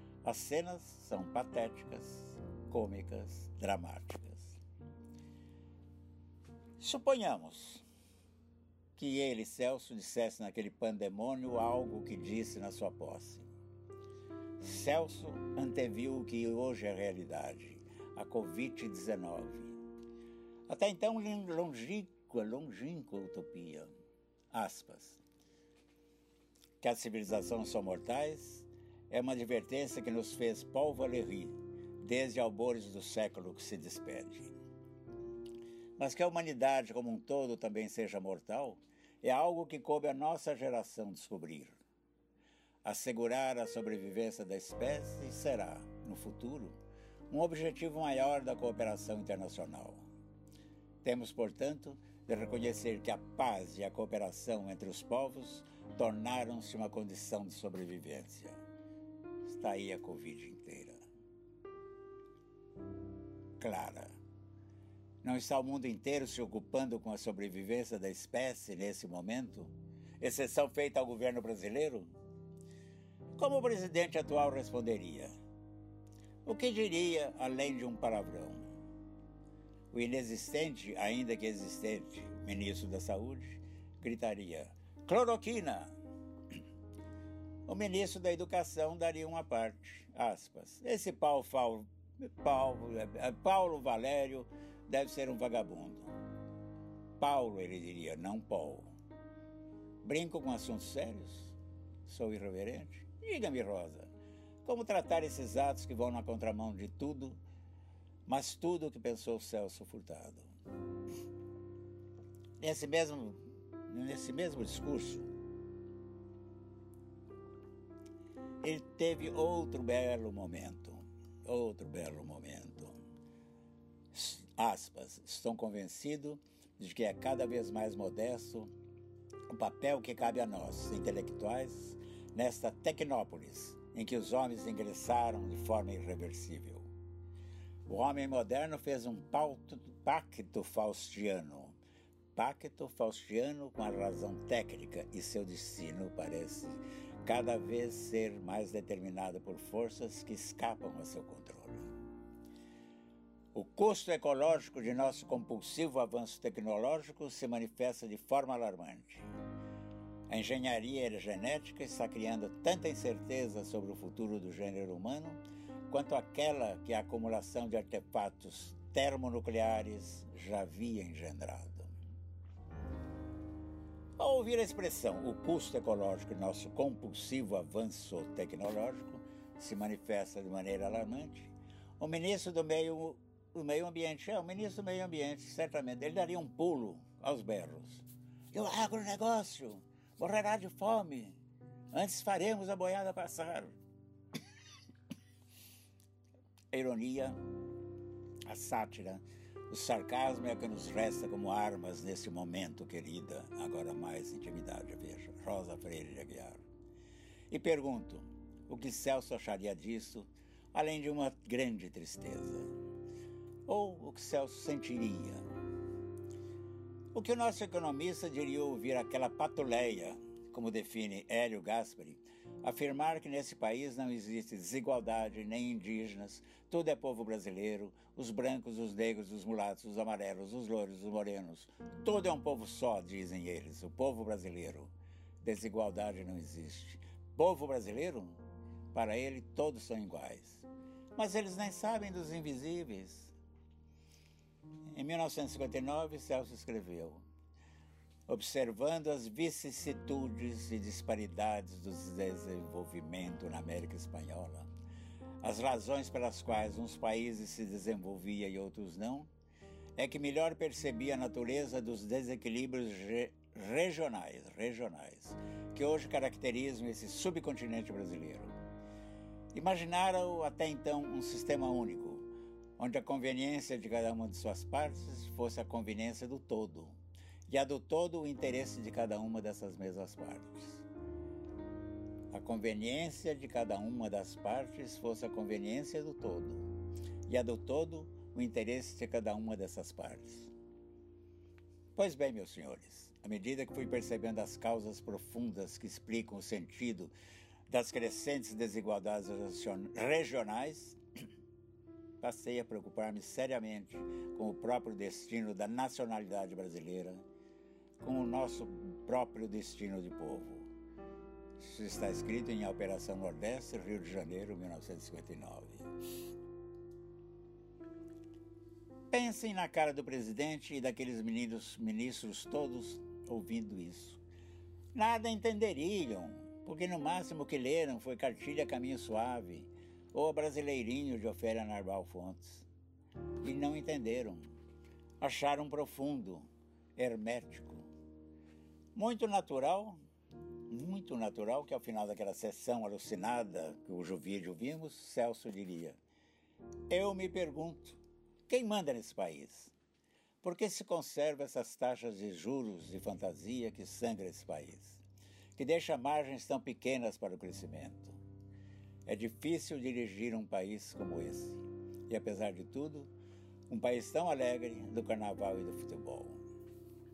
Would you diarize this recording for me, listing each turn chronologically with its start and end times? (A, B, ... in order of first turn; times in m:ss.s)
0:00.2-0:04.6 A
0:06.8-0:07.8 A
0:09.0-0:13.5 A
0:14.6-0:19.8 A
0:20.7-0:23.9 A
0:24.5-0:25.2 A
0:26.8-0:34.5 A
0:36.0-0:41.8 A
0:42.8-0:46.8 A
0:47.3-0:50.1 A
0:51.0-0:58.6 A
0:59.4-1:01.0 A
1:03.6-1:04.2 A
1:05.2-1:12.1 A
1:13.4-1:15.3 A
1:16.5-1:18.7 A
1:19.9-1:25.9 A
1:27.7-1:36.1 A
1:37.2-1:38.9 A
1:40.0-1:44.1 A
1:44.6-1:47.4 A
1:48.3-1:50.5 A
1:52.6-1:55.3 A
1:58.6-2:03.0 A
2:04.1-2:08.7 A
2:09.5-2:16.9 A
2:17.9-2:21.8 A
2:22.3-2:31.9 A
2:33.5-2:39.3 A
2:40.3-2:51.9 A
2:54.2-3:11.4 A
3:11.9-3:13.7 A
3:16.7-3:17.4 A
3:18.5-3:26.6 A
3:27.5-3:32.7 A
3:33.7-3:35.5 A
3:37.1-3:58.4 A
3:58.9-4:03.3 A
4:04.9-4:07.2 A
4:08.3-4:14.7 A
4:15.4-4:19.3 A
4:20.0-4:28.6 A
4:29.5-4:32.3 A
4:32.8-4:37.0 A
4:37.5-4:40.8 A
4:42.3-4:46.7 A
4:47.3-4:50.5 A
4:52.0-4:57.1 A
4:57.7-5:01.0 A
5:02.2-5:07.2 A
5:08.0-5:10.7 A
5:11.6-5:15.9 A
5:19.1-5:24.2 A
5:24.9-5:32.7 A
5:33.4-5:34.5 A
5:35.2-5:37.9 A
5:39.0-5:40.0 A
5:40.7-5:46.0 A
5:46.9-5:49.7 A
5:50.4-5:55.0 A
5:55.6-5:58.2 A
5:59.1-6:03.1 A
6:03.7-6:06.4 A